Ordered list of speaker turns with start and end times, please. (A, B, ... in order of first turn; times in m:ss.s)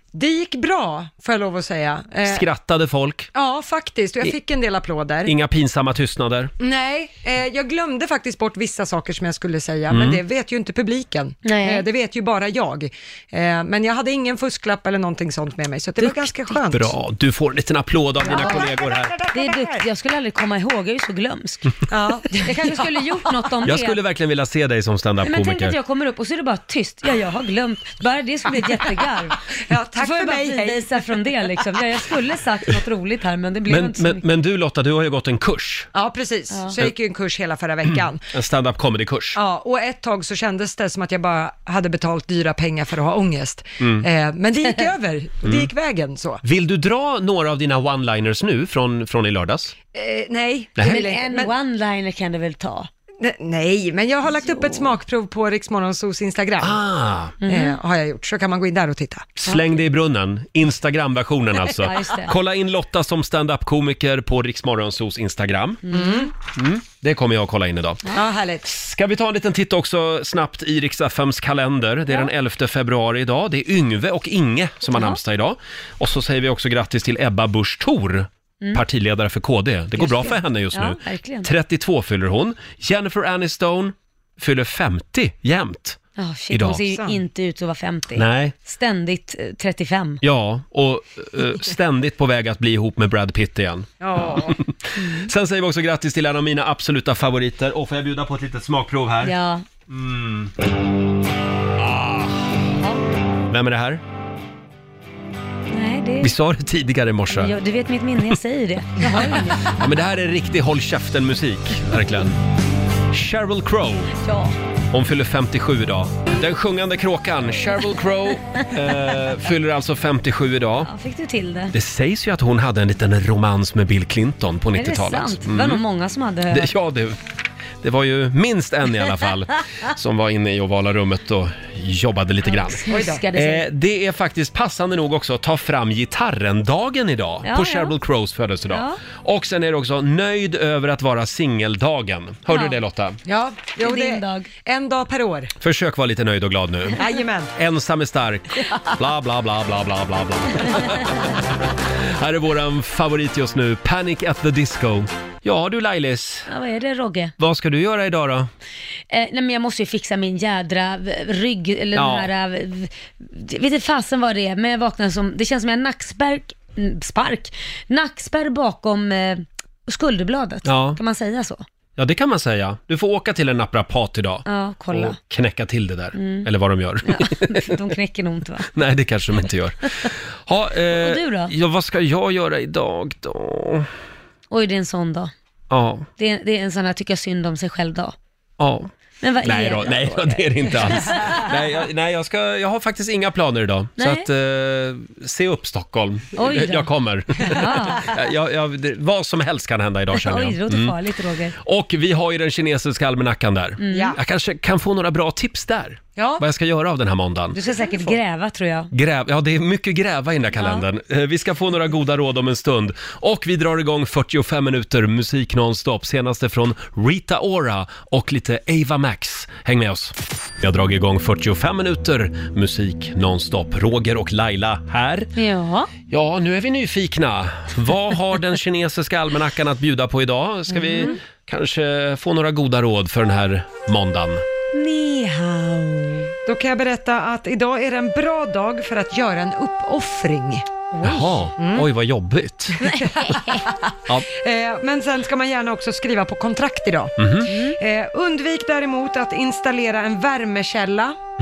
0:00.1-0:02.5 A
0:02.3-0:03.3 B
0:03.3-0:05.3 A
0:05.2-0:06.5 B
0:06.6-0:16.9 A
0:09.9-0:10.2 B
0:11.4-0:11.9 C
0:16.0-0:16.6 C
0:16.7-0:19.1 B
0:18.2-0:19.8 A
0:18.3-0:18.6 C
0:19.3-0:21.8 C
0:21.9-0:23.2 A
0:22.3-0:24.0 C
0:23.7-0:25.8 B
0:25.3-0:29.4 C
0:29.7-0:30.9 A
0:30.0-0:34.2 C
0:33.7-0:35.9 B
0:35.9-0:38.2 A
0:37.9-0:39.4 B
0:39.3-0:46.4 A
0:43.8-0:44.1 B
0:45.4-0:45.7 B
0:46.4-0:49.7 B
0:49.9-0:51.5 A
0:50.8-0:52.9 C
0:53.2-0:56.8 A
0:54.3-0:55.0 C
0:56.6-0:57.4 B
0:57.4-0:57.8 C
0:57.5-0:59.3 A
0:59.4-1:05.8 B
1:01.8-1:02.4 C
1:05.9-1:06.3 C
1:05.9-1:06.3 A
1:06.5-1:08.0 B
1:08.1-1:08.6 A
1:08.6-1:26.0 B
1:14.9-1:15.2 C
1:20.0-1:21.5 C
1:26.2-1:30.2 C
1:26.5-1:26.8 B
1:26.9-1:27.2 A
1:28.2-1:28.6 B
1:30.2-1:39.4 B
1:34.0-1:34.6 A
1:35.0-1:35.3 C
1:39.2-1:39.6 C
1:39.9-1:40.5 B
1:41.8-1:42.4 B
1:43.5-1:44.0 B
1:45.7-1:46.3 C
1:46.2-1:47.5 B
1:47.3-1:49.8 C
1:49.7-1:52.4 B
1:53.1-1:54.1 B
1:54.2-1:54.6 C
1:54.9-2:00.9 B
2:00.9-2:01.7 C
2:01.7-2:05.8 B
2:04.8-2:06.7 C
2:06.5-2:07.2 B
2:07.8-2:23.2 B
2:12.4-2:13.6 C
2:12.9-2:13.2 A
2:17.4-2:17.9 C
2:18.7-2:19.0 C
2:22.5-2:22.8 C
2:23.3-2:25.5 A
2:23.8-2:24.5 C
2:25.6-2:27.0 B
2:27.0-2:27.5 A
2:27.6-2:31.2 B
2:32.2-2:36.5 B
2:36.5-2:37.3 C
2:37.4-2:38.5 B
2:39.1-2:51.6 C
2:42.0-2:42.3 B
2:50.6-2:51.0 B
2:52.0-2:57.7 B
2:54.5-2:55.2 C
2:56.2-2:56.5 C
2:57.1-2:58.7 C
2:58.7-3:03.9 B
3:00.9-3:01.5 C
3:04.5-3:05.3 C
3:05.7-3:06.1 B
3:06.2-3:08.2 C
3:08.6-3:08.9 B
3:09.2-3:11.5 C
3:09.4-3:21.0 B
3:14.0-3:14.3 C
3:16.4-3:16.9 C
3:17.4-3:18.1 C
3:20.1-3:21.6 C
3:21.6-3:27.6 B
3:23.8-3:24.2 C
3:23.9-3:24.2 A
3:26.2-3:26.4 A
3:27.6-3:28.9 C
3:27.7-3:28.1 A
3:28.9-3:45.3 B
3:30.6-3:30.8 C
3:45.4-3:45.9 C
3:46.1-3:54.4 B
3:50.7-3:51.2 C
3:54.7-3:56.3 C
3:56.5-4:00.7 A
4:00.9-4:01.4 C
4:01.0-4:02.8 B
4:01.6-4:01.9 A
4:02.8-4:11.2 A
4:02.8-4:03.6 C
4:07.2-4:07.5 B
4:07.5-4:07.8 C